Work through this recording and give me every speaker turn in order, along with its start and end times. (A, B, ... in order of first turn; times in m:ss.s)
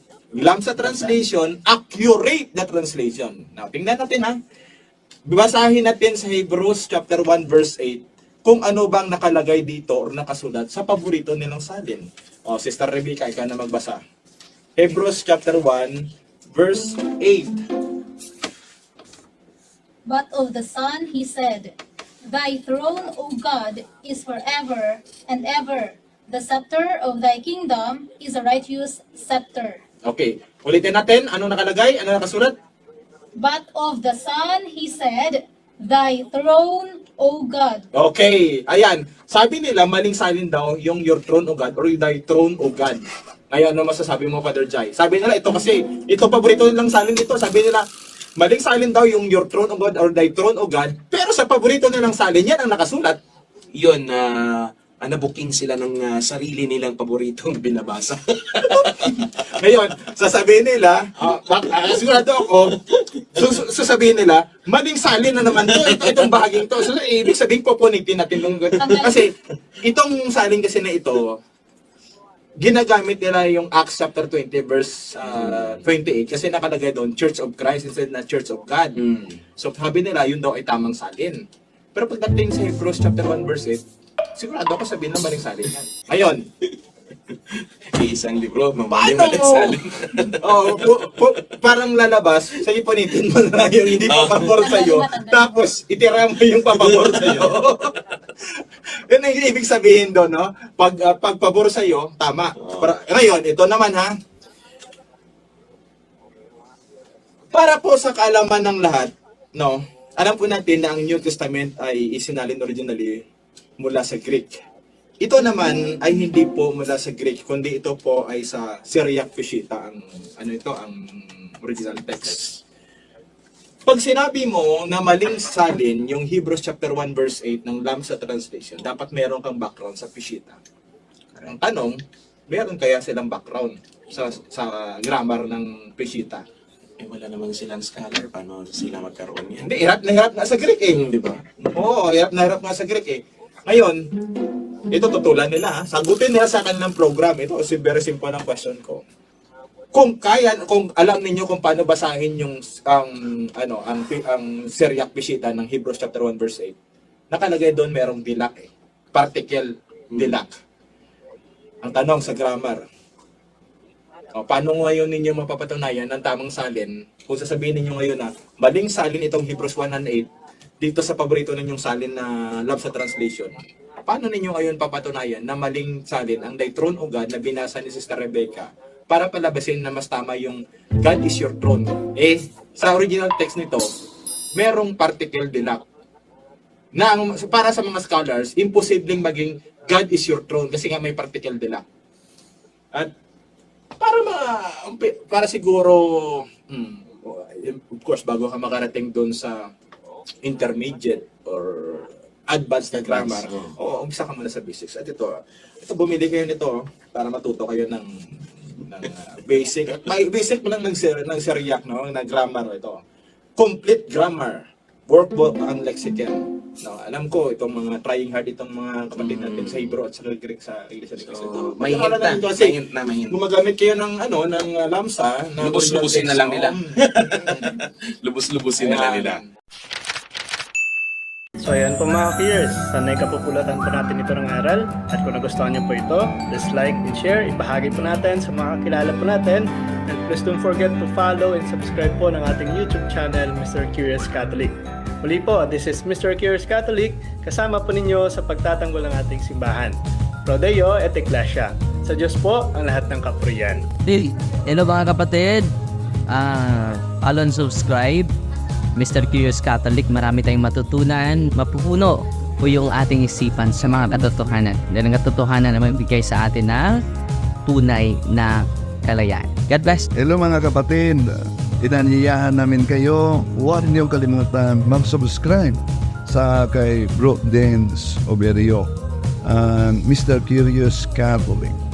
0:00.3-0:04.4 A
0:05.2-0:14.0 A
0:14.8-0:17.6 A
0:20.0-0:21.8 B
0:22.3-0:29.8 B
0:30.0-0:32.5 A
0:33.4-0:37.8 B
0:37.9-0:47.8 A
0:48.4-0:53.2 A
0:53.7-0:59.5 C
0:58.7-1:02.8 A
1:01.7-1:02.0 C
1:02.9-1:03.2 C
1:03.3-1:11.4 A
1:05.6-1:06.3 C
1:12.6-1:19.0 A
1:15.3-1:15.8 C
1:19.0-1:19.4 C
1:19.6-1:21.4 A
1:21.9-1:23.8 A
1:24.3-1:26.4 A
1:27.3-1:31.0 C
1:28.9-1:29.8 A
1:30.4-1:37.8 A
1:34.0-1:35.0 C
1:34.7-1:35.3 B
1:36.6-1:37.8 C
1:39.1-1:44.1 A
1:42.6-1:42.9 C
1:47.5-1:53.2 A
1:53.8-1:54.6 A
1:55.2-2:02.6 A
2:03.8-2:10.6 A
2:11.5-2:16.4 A
2:17.0-2:19.7 C
2:19.6-2:21.0 A
2:20.9-2:21.4 C
2:21.7-2:24.0 A
2:24.9-2:29.0 A
2:29.9-2:36.7 A
2:37.3-2:40.5 A
2:40.1-2:40.4 C
2:41.8-2:42.8 A
2:44.3-2:50.3 A
2:50.8-3:03.9 A
3:04.5-3:05.8 A
3:06.9-3:11.8 A
3:14.0-3:19.7 A
3:20.4-3:28.1 A
3:23.0-3:23.7 C
3:28.7-3:33.0 A
3:33.6-3:42.8 A
3:39.2-3:39.9 C
3:41.2-3:43.4 C
3:43.3-3:47.6 A
3:45.6-3:49.4 C
3:48.8-3:49.4 A
3:51.6-4:13.8 D
4:14.0-4:15.7 E
4:16.3-4:18.3 E
4:19.0-4:27.0 E
4:27.6-4:30.1 E
4:30.2-4:38.9 F
4:39.4-4:41.8 F